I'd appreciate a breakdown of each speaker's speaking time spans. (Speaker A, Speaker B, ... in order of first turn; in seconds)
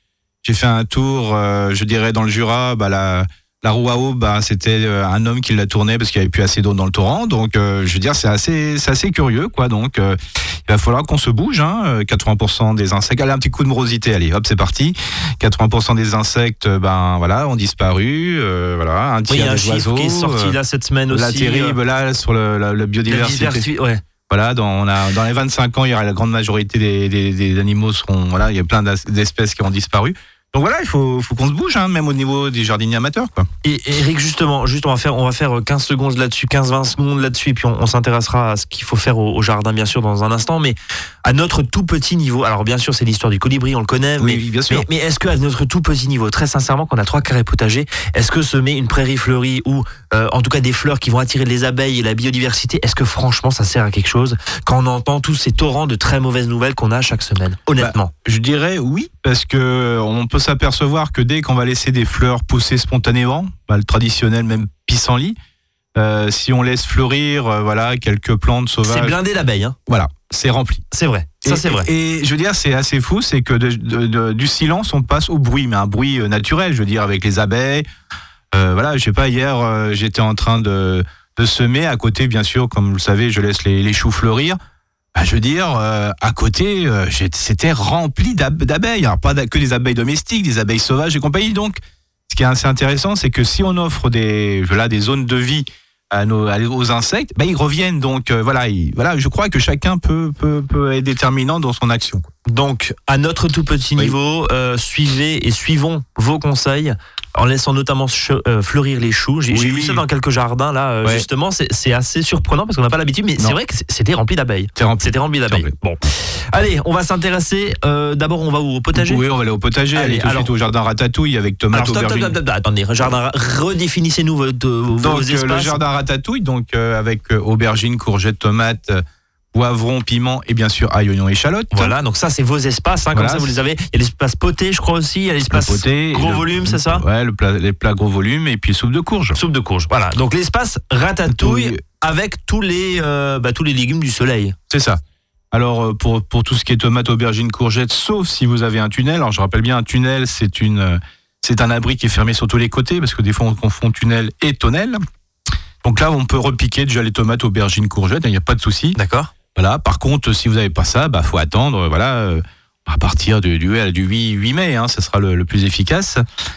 Speaker A: 0.4-20.6, 21.1-23.7, 24.3-33.5, 44.2-44.9, 57.8-65.3, 65.9-69.2, 69.9-70.8, 71.4-77.8, 78.5-84.6, 85.1-102.3, 109.5-110.0, 114.7-115.7, 118.9-122.3, 125.0-131.9, 133.1-133.5, 135.5-139.4, 141.3-141.8, 144.7-145.0, 145.5-155.0, 155.8-159.0, 159.5-166.2
Speaker B: 19.3-21.8, 23.1-24.0, 33.6-58.1, 68.8-69.8, 70.9-71.9, 102.5-119.2, 119.9-120.5, 121.7-125.8, 131.7-137.0, 139.3-144.6, 158.9-159.3